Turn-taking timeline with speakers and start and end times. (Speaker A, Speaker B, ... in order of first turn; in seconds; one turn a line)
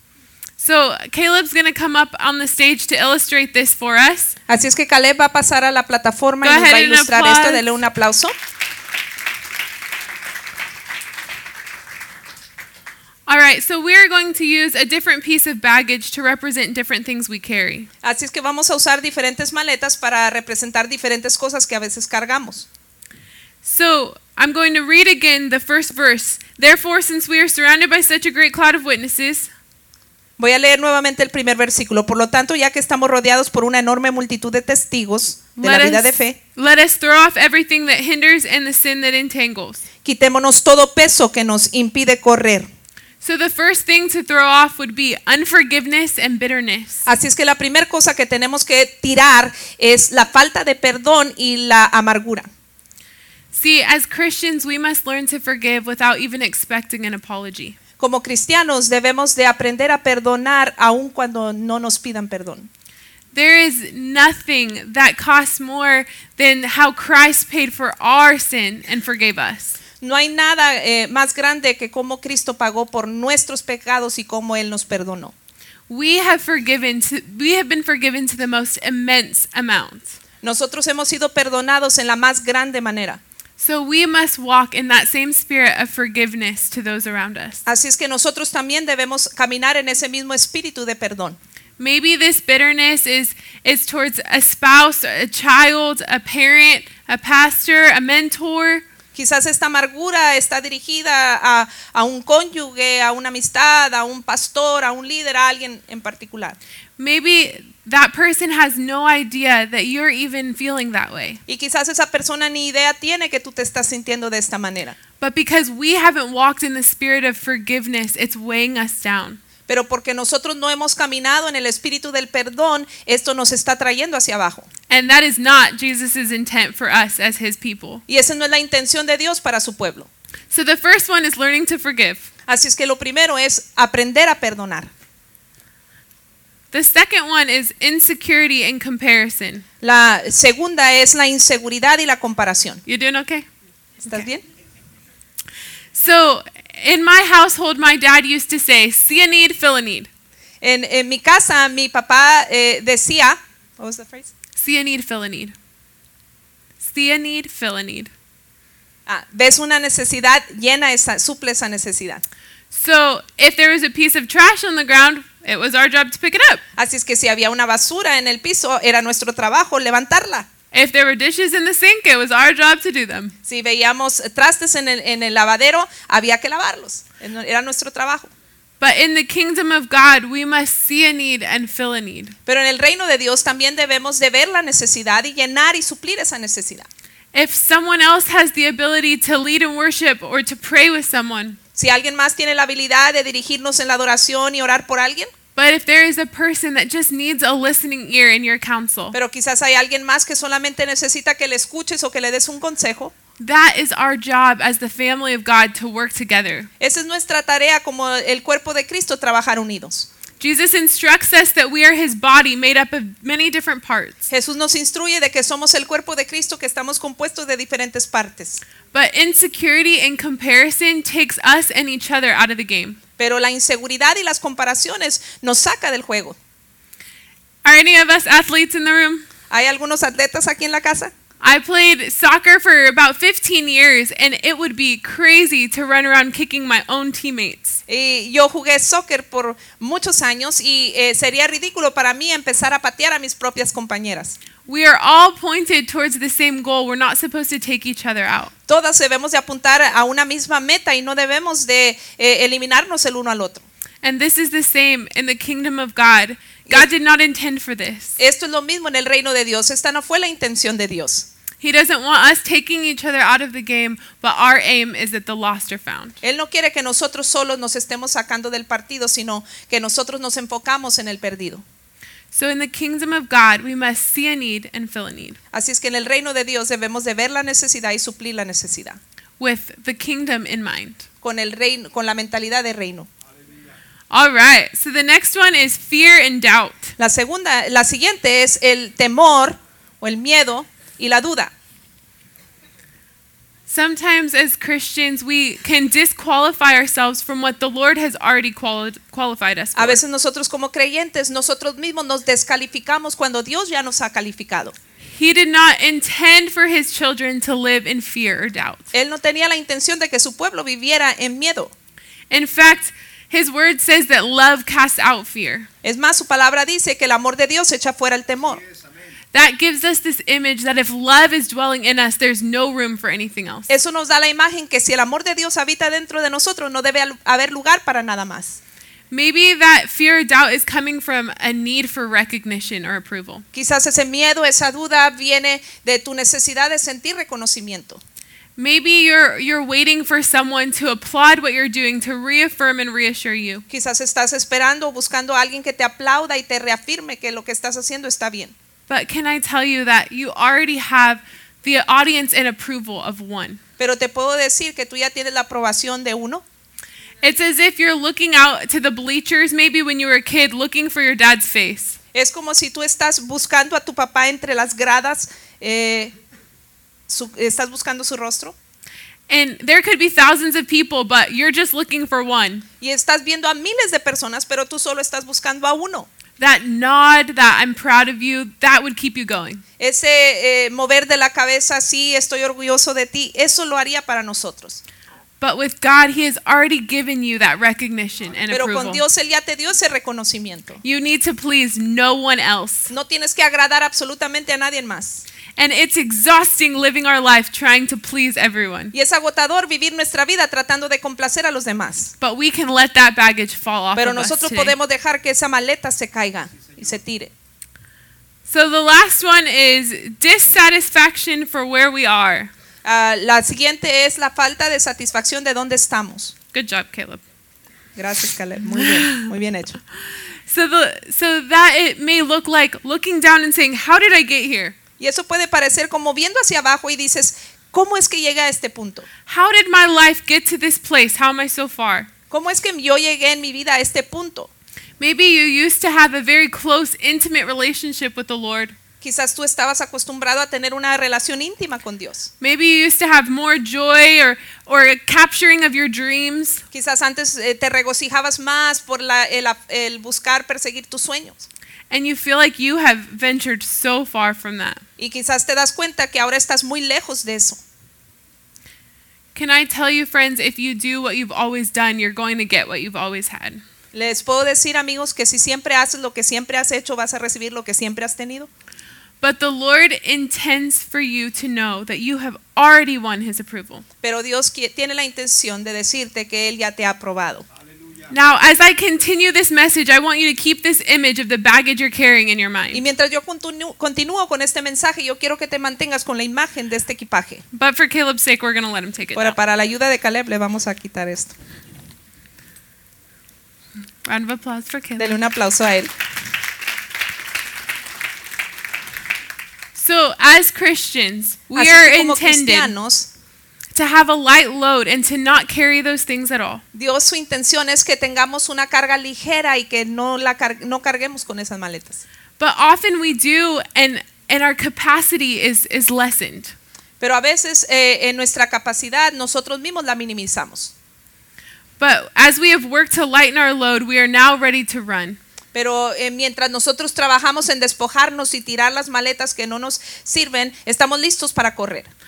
Speaker A: 0.6-4.3
Speaker B: 4.5-8.3
Speaker A: 6.4-7.7
Speaker A: 13.3-17.9
Speaker B: 18.0-22.7
Speaker A: 23.6-29.5
Speaker B: 30.4-36.4
Speaker A: 35.6-39.8
Speaker B: 40.0-42.7
Speaker A: 43.2-47.0
Speaker B: 47.0-52.5
Speaker A: 53.5-57.8
Speaker B: 58.0-62.7
Speaker A: 63.3-69.8
Speaker B: 70.0-75.3
Speaker A: 75.9-80.2
Speaker B: 80.4-83.2
Speaker A: 83.6-87.6
Speaker B: 87.7-91.4
Speaker A: 91.8-98.8
Speaker B: 99.1-106.6
Speaker A: 107.0-111.4
Speaker B: 111.5-115.0
Speaker A: 115.2-119.4
Speaker B: 119.7-124.7
Speaker A: 124.9-128.0
Speaker B: 128.1-130.1
Speaker A: 130.5-132.3
Speaker B: 132.5-134.9
Speaker A: 136.7-139.6
Speaker B: 139.8-142.8
Speaker A: 142.8-143.5
Speaker B: 144.0-144.4
Speaker A: 145.9-150.1
Speaker B: 150.6-154.3
Speaker A: 154.6-155.5
Speaker A: 156.8-158.1
Speaker B: 159.1-162.2
Speaker A: 162.7-166.6
Speaker B: 166.8-170.5
Speaker A: 170.7-173.3
Speaker B: 173.4-178.3
Speaker A: 178.8-182.3
Speaker B: 182.4-186.9
Speaker A: 187.3-191.6
Speaker B: 191.8-195.3
Speaker A: 195.6-199.1
Speaker B: 199.1-203.1
Speaker A: 203.4-206.7
Speaker B: 206.8-210.1
Speaker A: 210.4-214.3
Speaker B: 214.3-218.6
Speaker A: 218.9-223.0
Speaker B: 223.2-226.3
Speaker A: 227.6-229.2
Speaker B: 229.5-231.1
Speaker A: 231.4-237.8
Speaker B: 237.9-244.3
Speaker A: 244.7-248.5
Speaker B: 248.7-253.6
Speaker A: 254.0-258.2
Speaker B: 258.2-261.3
Speaker A: 261.6-266.2
Speaker B: 266.2-271.6
Speaker A: 272.3-275.4
Speaker B: 275.5-279.0
Speaker A: 279.4-281.1
Speaker B: 281.2-283.1
Speaker A: 284.1-286.9
Speaker B: 287.0-291.5
Speaker A: 293.7-300.0
Speaker B: 299.8-304.7
Speaker A: 305.1-308.9
Speaker B: 308.9-311.7
Speaker A: 312.3-315.7
Speaker B: 315.8-318.6
Speaker A: 319.3-323.7
Speaker B: 323.7-328.6
Speaker A: 329.1-333.4
Speaker B: 333.5-338.0
Speaker A: 338.6-343.6
Speaker B: 343.7-348.5
Speaker A: 348.9-353.6
Speaker B: 353.8-356.4
Speaker A: 357.2-362.0
Speaker B: 362.1-366.1
Speaker B: 367.1-368.5
Speaker A: 369.3-372.6
Speaker B: 372.8-376.1
Speaker A: 376.4-379.6
Speaker B: 379.8-384.8
Speaker A: 385.4-389.0
Speaker B: 388.5-390.8
Speaker A: 390.8-392.9
Speaker B: 392.9-395.2
Speaker A: 395.6-398.9
Speaker B: 398.9-402.1
Speaker A: 402.2-404.7
Speaker B: 403.9-407.3
Speaker A: 408.5-412.5
Speaker B: 412.8-416.3
Speaker A: 416.5-417.2
Speaker B: 417.9-419.8
Speaker A: 418.8-419.3
Speaker A: 420.5-424.7
Speaker B: 425.0-429.1
Speaker A: 429.3-432.1
Speaker B: 432.3-434.5
Speaker A: 435.0-438.7
Speaker B: 439.0-442.3
Speaker A: 442.4-446.6
Speaker B: 446.7-451.5
Speaker A: 451.9-454.8
Speaker B: 455.0-457.6
Speaker A: 459.3-463.6
Speaker B: 463.9-468.5
Speaker A: 469.2-473.8
Speaker B: 474.0-477.4
Speaker A: 478.1-482.8
Speaker B: 482.7-487.4
Speaker A: 487.5-489.4
Speaker B: 489.1-491.3
Speaker A: 494.0-495.1
Speaker B: 495.0-495.9
Speaker A: 499.7-502.7
Speaker B: 501.5-503.1
Speaker A: 503.7-506.6
Speaker B: 506.7-512.0
Speaker A: 512.4-516.5
Speaker B: 517.0-520.7
Speaker A: 521.8-525.2
Speaker B: 525.5-531.9